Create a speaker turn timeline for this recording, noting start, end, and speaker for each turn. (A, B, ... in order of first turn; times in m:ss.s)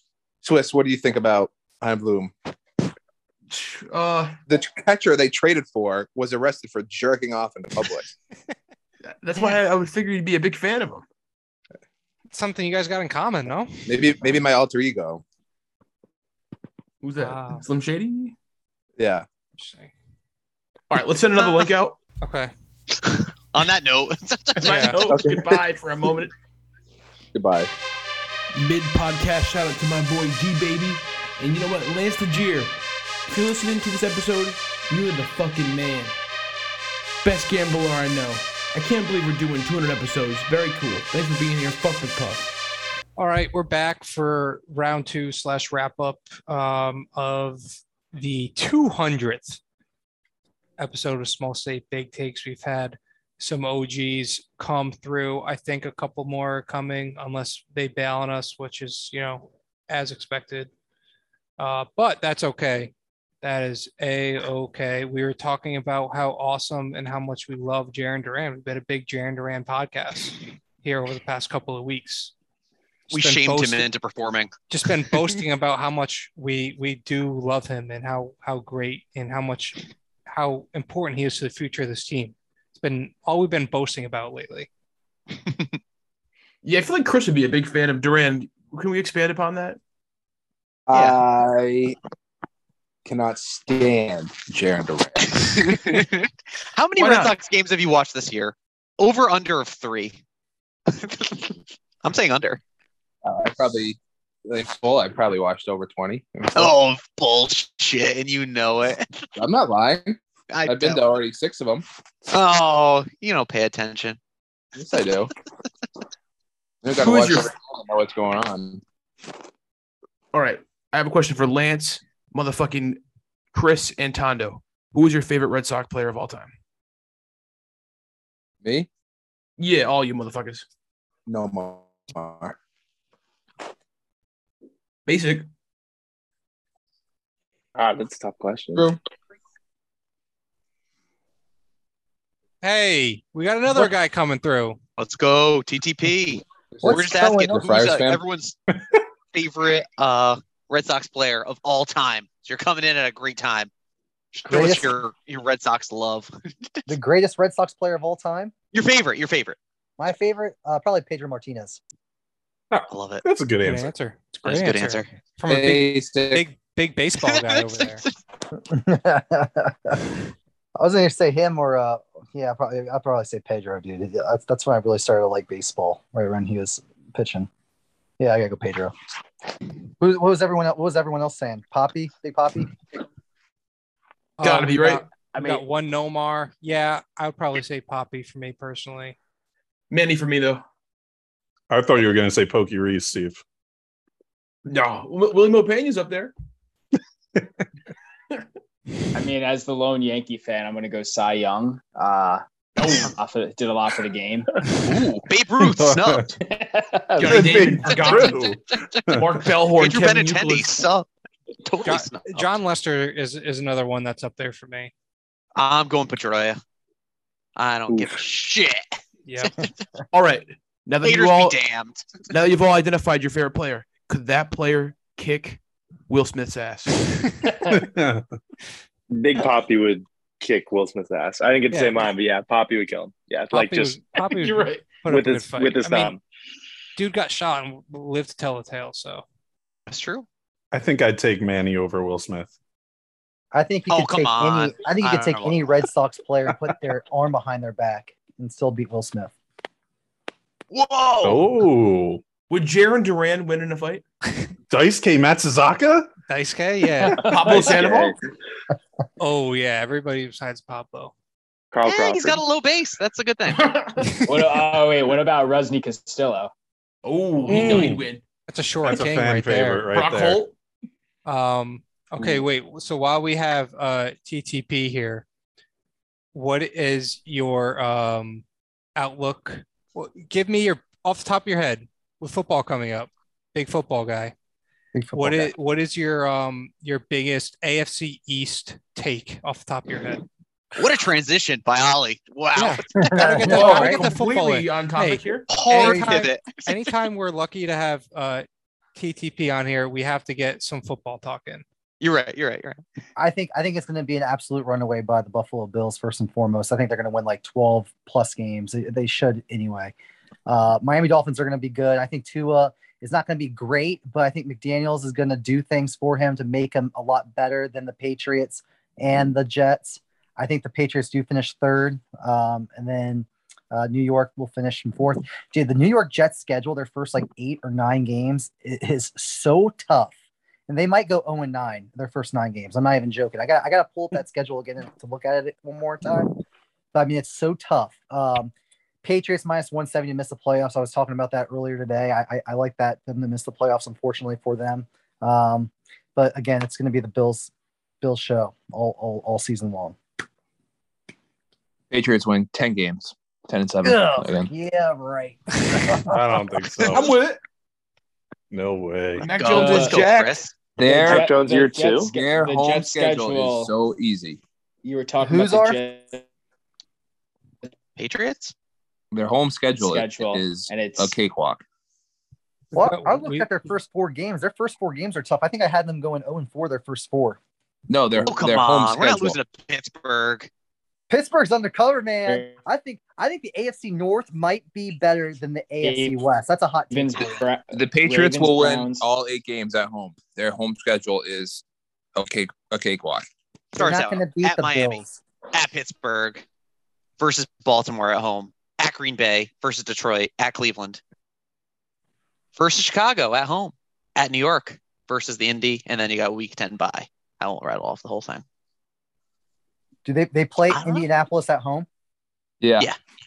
0:00.4-0:02.3 A
0:03.5-0:04.4 B
0:04.5-0:08.1 A
0:09.1-0:11.0 B
0:12.3-0:13.9 C
0:13.9-0:15.2 A
0:17.0-0:18.3 B
0:17.2-0:17.6 C
0:19.0-0:19.2 A
0:19.6-0:19.9 C
0:20.9-0:22.0 B
0:22.2-0:22.5 C
0:23.0-0:24.9 D
0:24.6-0:26.3 B
0:24.6-0:25.0 C
0:25.1-0:25.6 A
0:27.3-0:27.7 A
0:28.5-0:32.7 B
0:33.3-0:36.1 B
0:37.2-0:42.4 B
0:43.2-0:49.6 C
0:50.8-1:00.7 C
1:01.6-1:12.3 C
1:13.1-1:13.9 C
1:13.1-1:14.5 D
1:14.7-1:19.8 C
1:20.3-1:24.7 C
1:26.6-1:29.8 B
1:30.9-1:32.0 A
1:30.9-1:31.2 D
1:33.0-1:35.9 A
1:35.3-1:40.2 D
1:37.0-1:37.3 B
1:40.9-1:42.6 D
1:43.2-1:46.7 A
1:46.5-1:49.1 D
1:49.4-1:50.2 A
1:50.5-1:51.0 D
1:50.7-1:51.8 A
1:52.3-1:54.2 D
1:54.7-1:55.3 A
1:56.8-1:58.8 A
1:57.0-1:57.5 B
2:00.3-2:03.0 B
2:03.5-2:06.5 B
2:08.6-2:08.9 A
2:09.6-2:10.6 B
2:11.3-2:12.6 A
2:15.0-2:15.4 B
2:17.7-2:18.9 E
2:22.6-2:24.8 C
2:25.0-2:28.6 D
2:26.8-2:27.7 F
2:27.5-2:28.1 A
2:29.3-2:33.7 D
2:34.3-2:36.8 D
2:34.5-2:34.9 F
2:36.9-2:38.5 F
2:38.7-2:39.6 D
2:40.0-2:41.8 F
2:42.7-2:43.9 G
2:42.9-2:43.2 D
2:43.6-2:48.0 C
2:44.4-2:45.1 D
2:45.5-2:46.4 A
2:47.2-2:48.1 D
2:48.7-2:50.0 F
2:50.8-2:57.5 F
2:58.2-2:58.9 F
3:00.0-3:02.7 F
3:04.4-3:09.2 C
3:04.4-3:05.0 B
3:05.3-3:05.6 H
3:09.9-3:10.6 B
3:11.7-3:13.4 G
3:14.6-3:16.3 B
3:19.1-3:24.5 H
3:22.8-3:23.1 B
3:25.2-3:26.4 D
3:25.6-3:26.3 G
3:26.4-3:28.1 H
3:27.2-3:28.6 B
3:27.2-3:29.4 G
3:29.1-3:30.8 B
3:29.8-3:31.1 D
3:31.6-3:32.5 D
3:31.8-3:34.9 C
3:35.6-3:36.6 D
3:37.6-3:39.7 D
3:37.9-3:38.2 E
3:39.3-3:39.5 C
3:40.1-3:41.6 B
3:41.0-3:42.3 D
3:42.3-3:47.0 B
3:47.7-3:48.2 G
3:49.1-3:54.0 E
3:51.7-3:52.0 C
3:53.5-3:56.1 C
3:54.2-3:55.0 B
3:55.0-3:56.2 E
3:57.0-3:59.2 C
3:59.9-4:00.2 D
4:00.7-4:02.5 G
4:03.5-4:09.3 F
4:03.9-4:05.8 D
4:10.7-4:11.4 D
4:11.2-4:12.2 G
4:12.5-4:14.0 B
4:14.7-4:16.1 G
4:16.3-4:17.2 C
4:17.2-4:18.2 B
4:17.5-4:18.2 E
4:19.2-4:21.1 C
4:21.7-4:22.4 E
4:21.8-4:23.7 D
4:23.5-4:24.0 B
4:24.0-4:24.3 C
4:24.2-4:26.5 H
4:27.0-4:28.2 B
4:27.5-4:28.0 G
4:28.5-4:29.9 C
4:28.8-4:30.4 G
4:29.9-4:30.5 B
4:31.2-4:35.2 C
4:36.3-4:38.4 C
4:39.0-4:44.3 C
4:44.9-4:45.5 F
4:45.1-4:50.2 C
4:50.7-4:53.1 D
4:52.6-5:01.6 C
4:53.0-4:54.0 F
4:53.4-4:55.6 B
4:55.5-4:56.7 D
4:55.7-4:56.2 F
5:02.0-5:02.8 D
5:03.2-5:09.9 F
5:10.4-5:30.1 F
5:30.7-5:36.3 F
5:36.9-5:38.5 F
5:39.0-5:47.5 F
5:48.0-5:50.0 F
5:51.9-5:54.5 I
5:53.8-5:56.1 F
5:56.1-5:57.1 G
5:56.9-5:57.4 B
5:58.5-5:59.3 G
5:59.2-6:00.2 B
5:59.2-6:00.5 D
5:59.5-6:00.0 H
6:00.8-6:01.3 I
6:00.8-6:03.7 H
6:01.0-6:02.1 E
6:02.1-6:04.4 I
6:04.8-6:06.2 H
6:05.2-6:05.8 F
6:08.0-6:08.5 D
6:09.1-6:11.6 I
6:09.8-6:11.1 H
6:12.7-6:13.5 C
6:12.7-6:17.4 F
6:17.9-6:19.4 I
6:18.3-6:20.5 D
6:21.1-6:27.4 F
6:22.3-6:22.5 H
6:25.8-6:26.2 H
6:26.9-6:29.0 H
6:27.7-6:31.6 I
6:32.2-6:33.2 I
6:33.7-6:36.4 D
6:33.8-6:35.2 F
6:37.2-6:41.0 D
6:42.6-6:48.4 D
6:50.0-6:51.8 F
6:50.7-6:51.0 D